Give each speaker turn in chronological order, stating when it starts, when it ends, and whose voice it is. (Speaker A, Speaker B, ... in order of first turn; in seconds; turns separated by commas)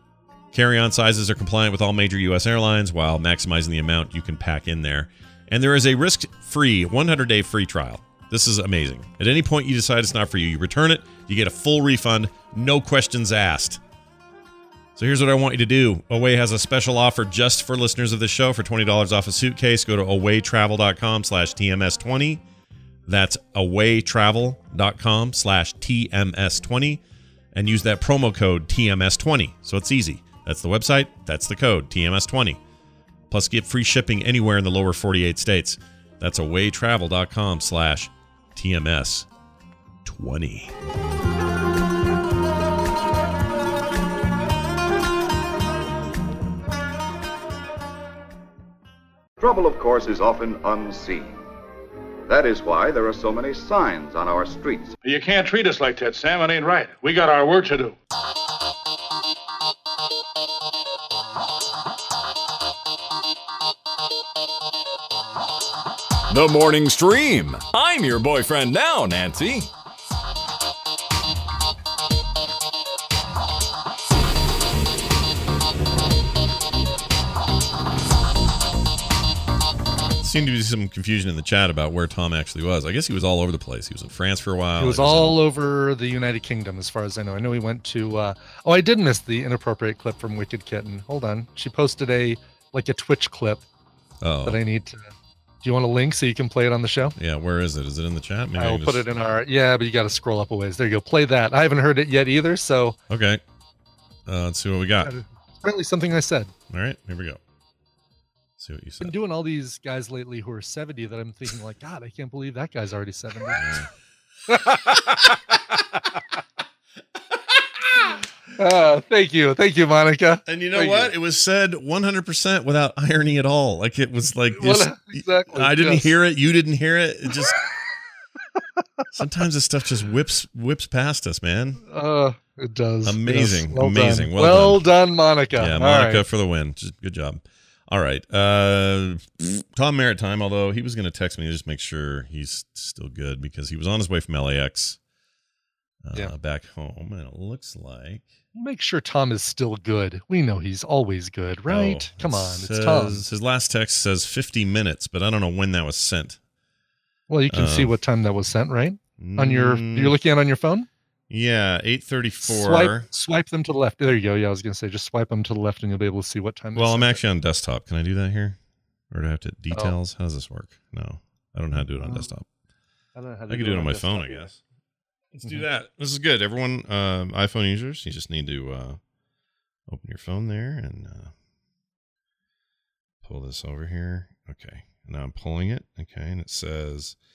Speaker A: 0.5-13.8, Speaker A: 15.0-22.4, Speaker A: 23.1-27.0, Speaker A: 27.5-32.6, Speaker A: 33.3-39.3, Speaker A: 40.0-40.7, Speaker B: 49.4-51.4, Speaker B: 52.3-54.9, Speaker C: 55.0-58.0, Speaker D: 66.3-69.7, Speaker A: 80.2-85.3, Speaker E: 84.8-93.6, Speaker A: 94.2-94.6, Speaker E: 94.4-95.0, Speaker E: 95.6-97.2, Speaker A: 97.2-99.0, Speaker E: 98.6-103.0, Speaker A: 103.1-103.4, Speaker A: 104.3-105.1, Speaker E: 105.0-106.5, Speaker A: 106.7-107.4, Speaker A: 108.6-109.1, Speaker E: 109.0-113.7, Speaker A: 113.6-113.9, Speaker E: 114.5-115.4, Speaker E: 118.5-121.1, Speaker A: 120.5-127.6, Speaker E: 124.5-126.1, Speaker A: 129.1-131.8, Speaker E: 131.9-136.2, Speaker A: 133.0-134.8, Speaker A: 135.6-145.0, Speaker A: 146.0-148.3, Speaker E: 148.5-153.2, Speaker A: 151.7-156.4, Speaker E: 157.3-160.9, Speaker A: 157.5-157.9, Speaker A: 159.2-160.1, Speaker A: 161.3-163.1, Speaker E: 162.4-167.2, Speaker A: 166.7-168.6, Speaker A: 169.1-172.4, Speaker E: 172.0-172.3, Speaker E: 173.1-174.5, Speaker A: 173.5-174.6, Speaker A: 175.3-179.0, Speaker A: 179.9-181.3, Speaker A: 183.2-187.1